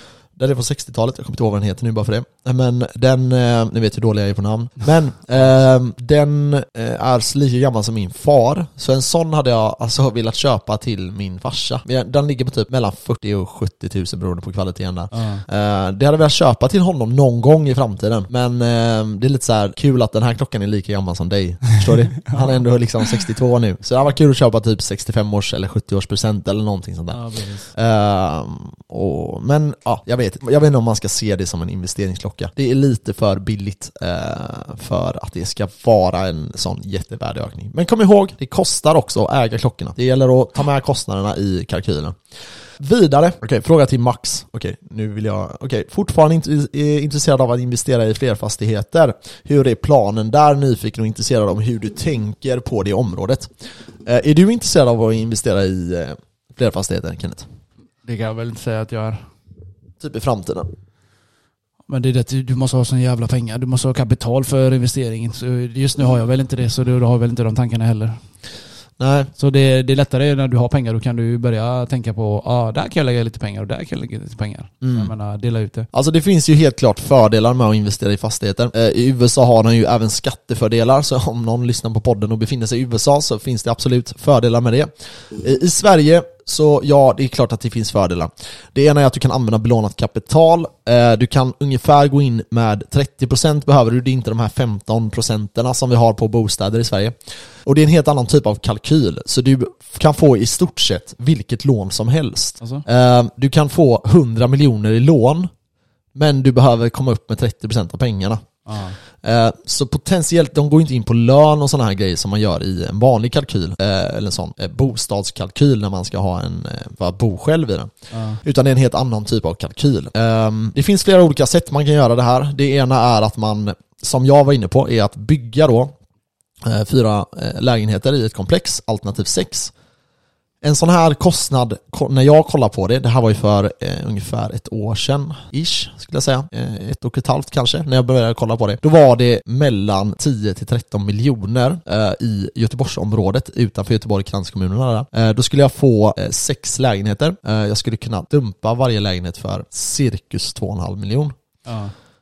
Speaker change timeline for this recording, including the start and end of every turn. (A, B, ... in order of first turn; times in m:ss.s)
0:00.4-0:27.2 A
0:15.1-0:15.4 B
0:27.1-0:27.7 B
0:27.7-0:42.2 A
0:42.8-0:53.5 A
0:54.0-0:57.4 A
0:58.0-0:59.2 B
1:00.0-1:00.7 A
1:01.9-1:08.2 B
1:09.0-1:09.3 A
1:09.4-1:15.9 B
1:14.8-1:15.1 A
1:15.9-1:37.1 A
1:37.6-1:45.5 A
1:46.1-1:48.4 A
1:48.6-1:49.0 B
1:49.2-2:05.9 A
1:58.1-1:58.4 B
2:06.6-2:09.7 A
2:10.6-2:31.3 A
2:31.6-2:31.9 B